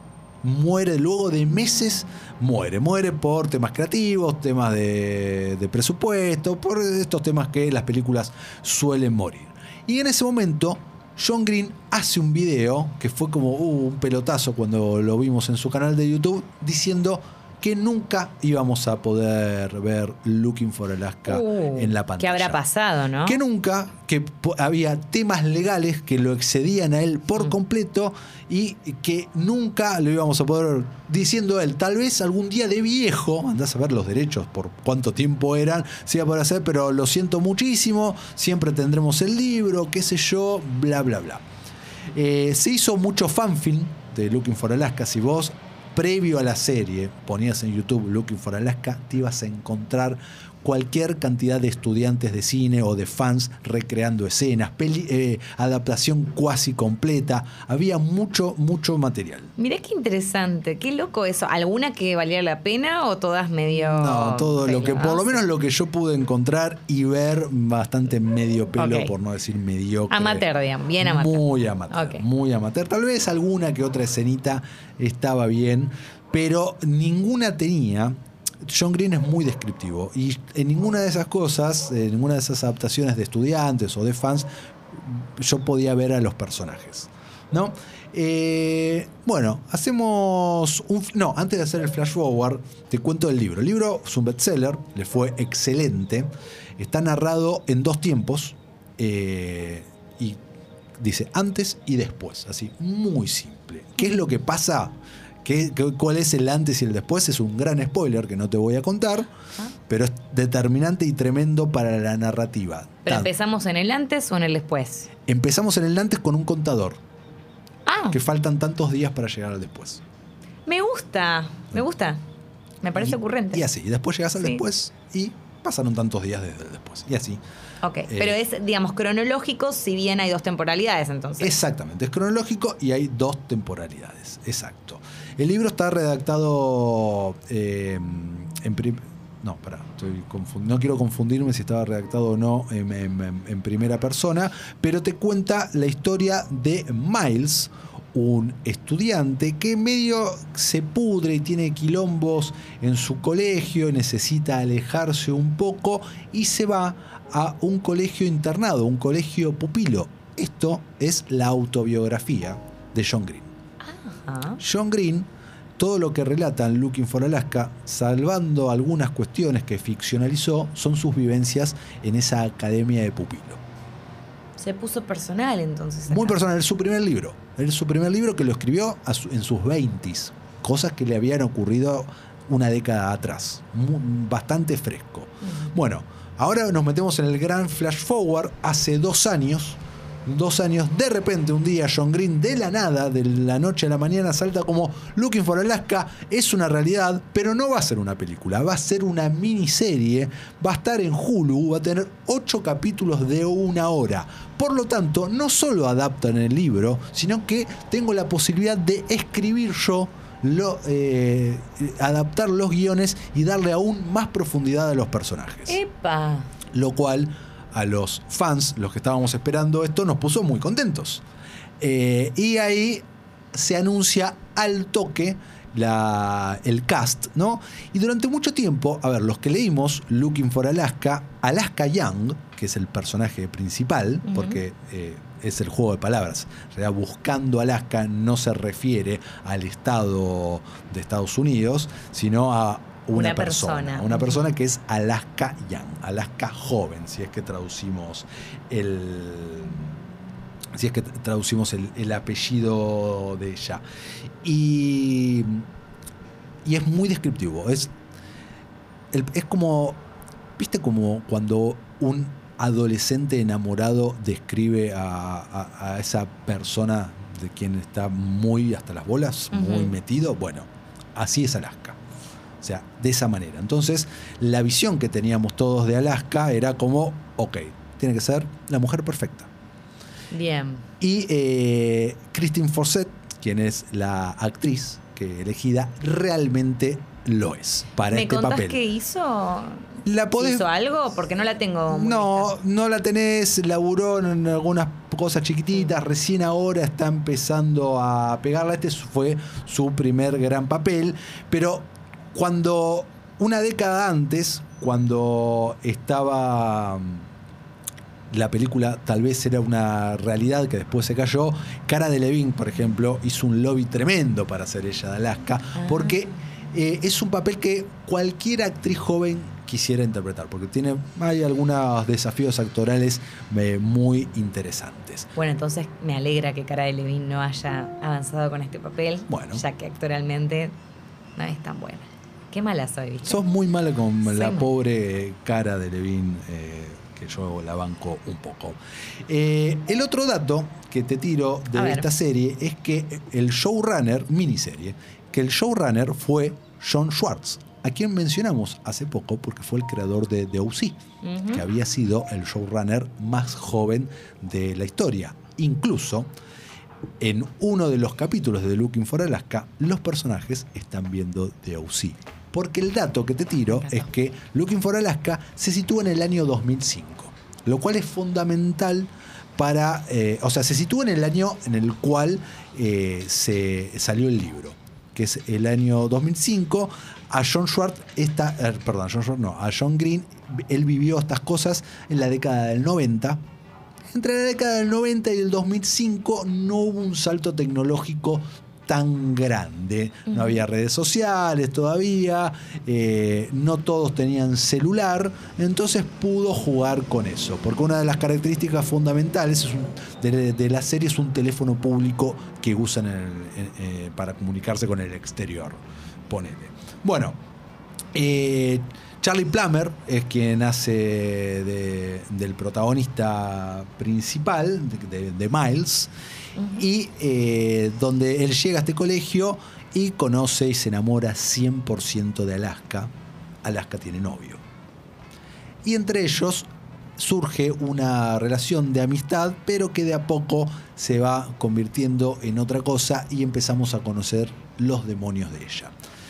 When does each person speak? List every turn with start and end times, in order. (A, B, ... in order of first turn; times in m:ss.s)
0:00.4-0:22.6 A
0:21.3-0:23.4 B
0:23.2-0:41.4 A
0:42.2-0:59.5 A
0:59.6-1:05.4 B
1:03.7-1:10.4 A
1:08.8-1:09.1 B
1:10.1-1:12.2 B
1:11.0-1:40.4 A
1:41.0-1:49.3 A
1:49.9-1:53.3 A
1:53.1-1:55.1 B
1:55.3-1:57.0 A
1:57.9-1:58.2 B
1:58.1-2:00.0 A
2:00.7-2:02.2 B
2:02.8-2:03.6 B
2:03.0-2:07.4 A
2:07.8-2:11.5 B
2:08.1-2:08.4 A
2:11.4-2:43.5 A
2:43.8-2:44.6 B
2:44.6-2:53.6 A
2:54.6-2:56.4 B
2:56.1-3:35.8 A
3:35.7-3:36.5 B
3:36.7-3:41.2 A
3:41.8-4:09.9 A
3:54.3-3:54.6 B
4:03.1-4:04.4 B
4:10.7-4:13.8 A
4:14.4-4:15.6 A
4:16.6-4:17.9 A
4:19.1-4:20.0 A
4:20.6-4:32.0 A
4:29.5-4:30.0 B
4:32.6-4:39.5 A
4:40.3-4:40.9 B
4:41.0-4:48.8 A
4:48.0-4:52.6 B
4:50.0-4:50.7 A
4:51.9-5:07.3 A
5:08.3-5:25.3 A
5:15.8-5:16.1 B
5:25.4-5:30.8 B
5:29.3-5:29.6 A
5:31.4-5:33.4 B
5:33.2-5:56.3 A
5:34.2-5:34.7 B
5:41.7-5:42.1 B
5:51.2-5:51.6 B
5:57.2-6:23.4 A
6:24.1-6:47.4 A
6:30.3-6:30.6 B
6:48.1-6:56.1 A
6:56.8-7:03.1 A
7:03.6-7:04.6 A
7:05.8-7:15.9 A